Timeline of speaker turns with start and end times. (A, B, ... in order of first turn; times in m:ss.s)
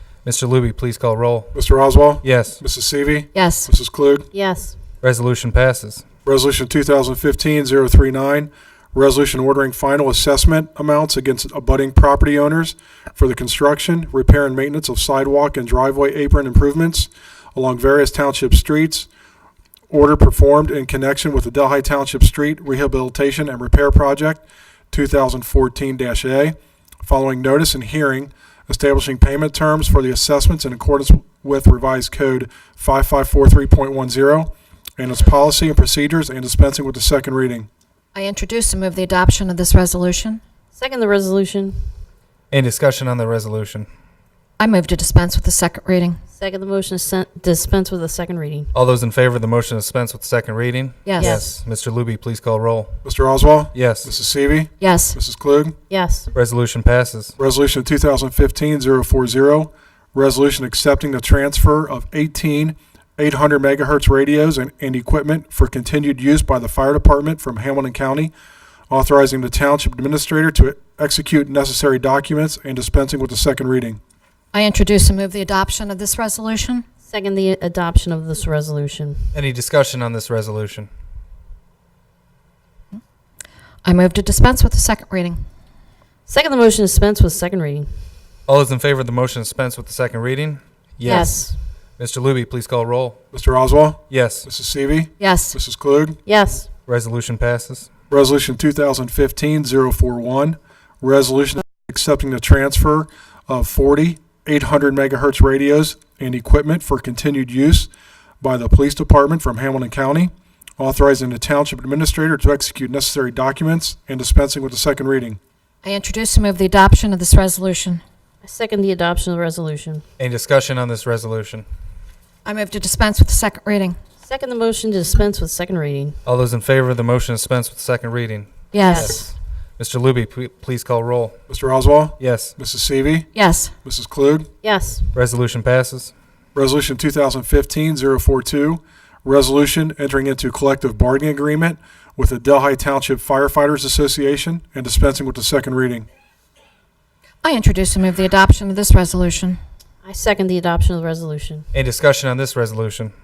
0:00.2-0:01.5 A
0:01.5-0:04.3 B
0:02.2-0:02.6 A
0:03.3-0:03.7 C
0:04.3-0:04.7 D
0:05.0-0:06.0 A
0:06.2-0:19.1 B
0:19.9-0:37.7 B
0:38.1-0:40.4 C
0:40.7-0:41.9 D
0:42.5-0:43.9 A
0:44.6-0:46.2 C
0:46.4-0:48.7 D
0:48.7-0:53.0 A
0:51.0-0:51.4 C
0:51.2-0:51.6 D
0:53.0-0:55.8 B
0:53.7-0:54.1 A
0:54.8-0:55.2 C
0:55.9-0:56.3 D
0:56.3-0:57.3 A
0:57.4-1:08.3 B
1:08.9-1:14.0 B
1:14.5-1:16.8 C
1:17.0-1:19.3 D
1:19.3-1:20.9 A
1:23.8-1:25.4 C
1:26.3-1:27.9 D
1:28.5-1:33.2 A
1:31.0-1:31.3 C
1:31.0-1:31.6 D
1:33.3-1:36.2 B
1:34.1-1:34.5 A
1:35.2-1:35.6 C
1:36.2-1:36.7 D
1:36.9-1:37.9 A
1:38.1-1:47.9 B
1:48.4-1:55.4 B
1:55.8-1:58.0 C
1:58.4-2:00.0 D
2:00.2-2:01.6 A
2:02.4-2:04.0 C
2:04.2-2:06.2 D
2:06.2-2:11.4 A
2:08.7-2:09.3 C
2:08.8-2:09.2 D
2:11.5-2:13.3 B
2:12.2-2:12.5 A
2:13.3-2:13.7 C
2:13.8-2:14.5 B
2:14.6-2:15.1 D
2:15.1-2:16.1 A
2:16.5-2:26.1 B
2:27.4-2:29.6 C
2:30.0-2:31.7 D
2:31.7-2:33.1 A